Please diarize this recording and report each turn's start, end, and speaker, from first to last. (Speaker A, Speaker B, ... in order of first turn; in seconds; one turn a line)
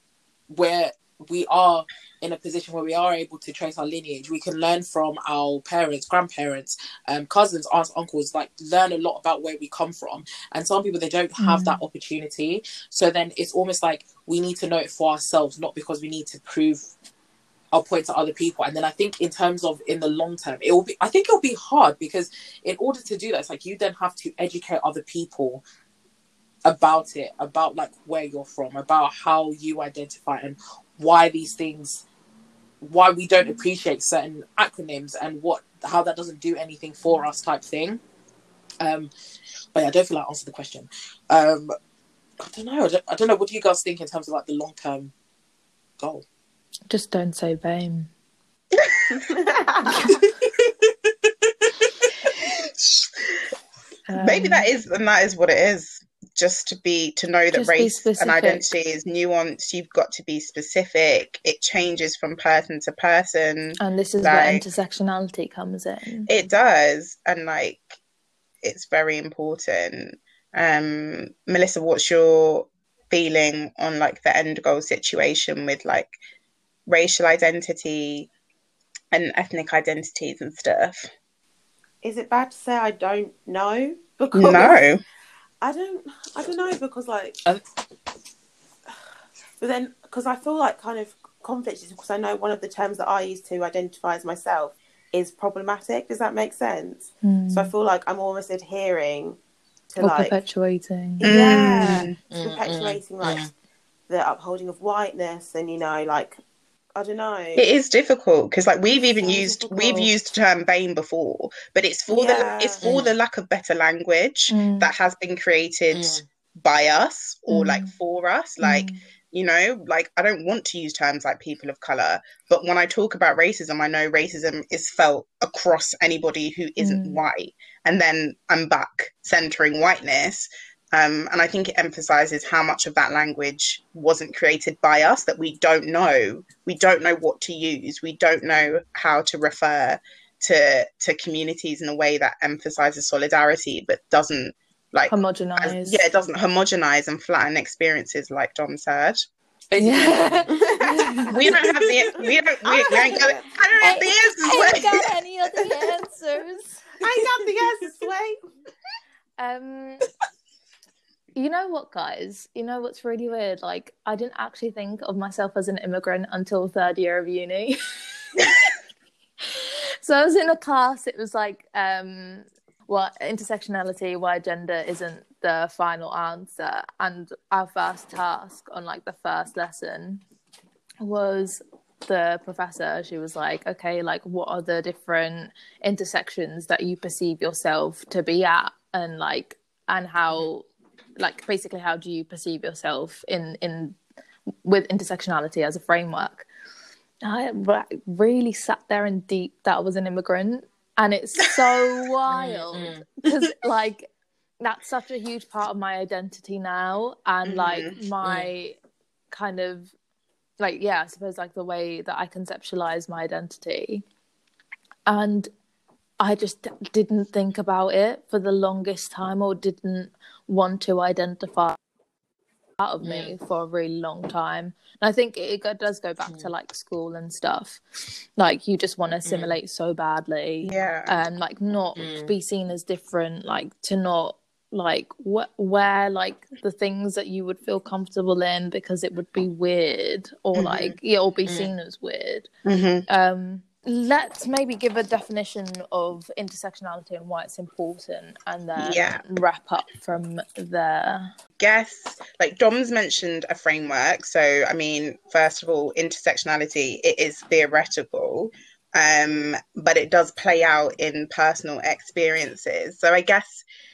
Speaker A: 0.5-16.9
Speaker B: 11.4-11.8
Speaker A: 17.7-25.6
Speaker A: 26.6-32.0
Speaker A: 32.8-38.0
Speaker A: 38.8-39.1
Speaker A: 39.7-41.7
Speaker A: 42.4-45.1
Speaker A: 46.0-46.2
Speaker B: 46.9-48.1
Speaker C: 48.7-49.4
Speaker D: 49.2-50.0
Speaker A: 50.5-52.1
Speaker C: 52.3-53.4
Speaker B: 54.1-54.7
Speaker C: 54.2-64.6
Speaker B: 57.5-58.7
Speaker B: 63.8-66.3
Speaker C: 66.3-68.0
Speaker C: 68.6-76.1
Speaker C: 76.9-78.3
Speaker C: 79.1-81.1
Speaker D: 82.0-84.8
Speaker C: 84.3-85.0
Speaker D: 85.6-87.4
Speaker D: 89.6-99.4
Speaker B: 97.2-97.7
Speaker D: 99.9-100.4
Speaker B: 100.0-102.0
Speaker D: 101.2-103.5
Speaker C: 101.2-102.1
Speaker A: 102.3-103.5
Speaker D: 104.1-106.4
Speaker D: 107.0-107.6
Speaker C: 107.5-149.2
Speaker D: 109.0-110.1
Speaker D: 112.1-112.9
Speaker A: 112.8-113.1
Speaker B: 114.5-114.9
Speaker A: 115.9-116.2
Speaker B: 117.5-117.9
Speaker B: 118.6-119.0
Speaker B: 126.8-127.2
Speaker B: 145.1-146.0
Speaker A: 149.7-150.5
Speaker B: 149.8-151.5
Speaker D: 150.5-154.8
Speaker C: 151.3-155.1
Speaker B: 153.8-156.8
Speaker C: 157.0-158.3
Speaker D: 157.1-158.0
Speaker B: 159.4-160.1
Speaker B: 161.3-167.8
Speaker B: 169.5-180.2
Speaker B: 181.0-190.7
Speaker B: 191.2-194.0
Speaker B: 194.6-196.4
Speaker B: 197.2-204.1
Speaker A: 202.3-203.1
Speaker B: 204.6-208.8
Speaker C: 207.4-208.0
Speaker A: 208.2-208.5
Speaker B: 209.3-209.9
Speaker B: 210.6-214.0
Speaker B: 215.1-215.5
Speaker B: 216.2-221.8
Speaker B: 222.8-242.5
Speaker A: 223.0-223.3
Speaker A: 226.2-226.5
Speaker A: 229.2-229.6
Speaker C: 230.6-231.2
Speaker A: 231.9-232.3
Speaker C: 240.5-241.0
Speaker A: 241.4-241.7
Speaker C: 242.7-243.1
Speaker B: 243.1-251.3
Speaker C: 248.8-249.2
Speaker C: 251.6-263.6